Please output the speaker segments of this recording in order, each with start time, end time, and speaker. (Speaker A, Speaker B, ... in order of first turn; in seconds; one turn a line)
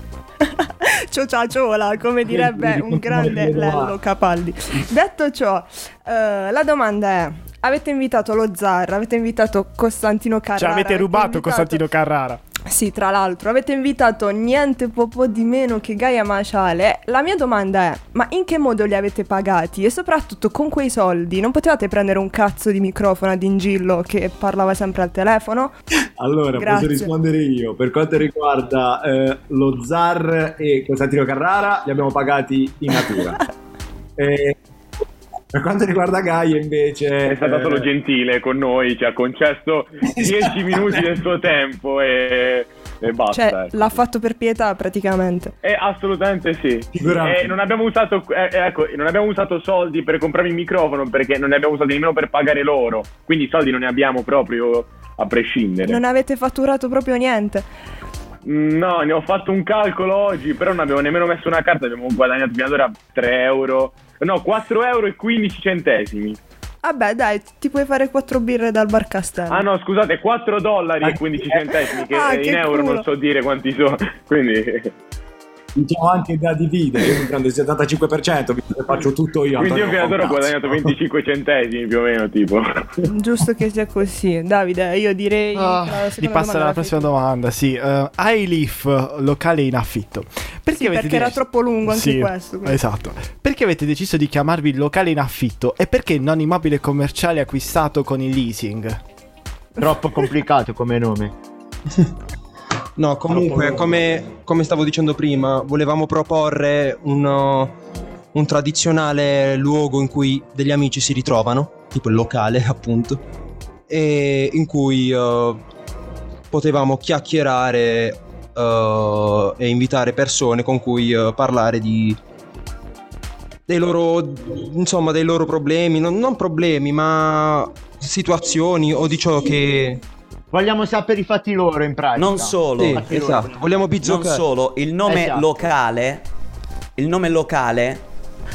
Speaker A: 0.4-11.8
Speaker B: 2.3-3.9
Speaker C: 10.6-12.4
Speaker A: 12.6-25.7
Speaker B: 26.2-33.4
Speaker A: 26.5-27.1
Speaker B: 34.2-34.6
Speaker B: 35.5-37.9
Speaker D: 37.2-43.9
Speaker B: 40.1-41.0
Speaker A: 43.3-45.5
Speaker D: 45.6-56.0
Speaker B: 46.9-47.6
Speaker A: 55.8-57.7
Speaker D: 58.4-66.4
Speaker A: 66.8-69.7
Speaker D: 69.5-74.9
Speaker B: 71.0-71.6
Speaker A: 72.0-73.0
Speaker B: 75.8-80.9
Speaker D: 79.5-83.1
Speaker A: 83.0-87.1
Speaker E: 85.5-86.0
Speaker C: 86.2-99.0
Speaker A: 90.7-92.8
Speaker E: 99.8-101.3
Speaker F: 103.0-107.7
Speaker B: 103.3-104.0
Speaker F: 108.3-113.2
Speaker F: 113.9-115.6
Speaker F: 116.5-122.2
Speaker F: 123.7-130.0
Speaker E: 130.5-133.6
Speaker G: 132.2-133.1
Speaker F: 132.8-134.4
Speaker G: 134.0-136.2
Speaker E: 135.1-135.5
Speaker G: 137.0-138.0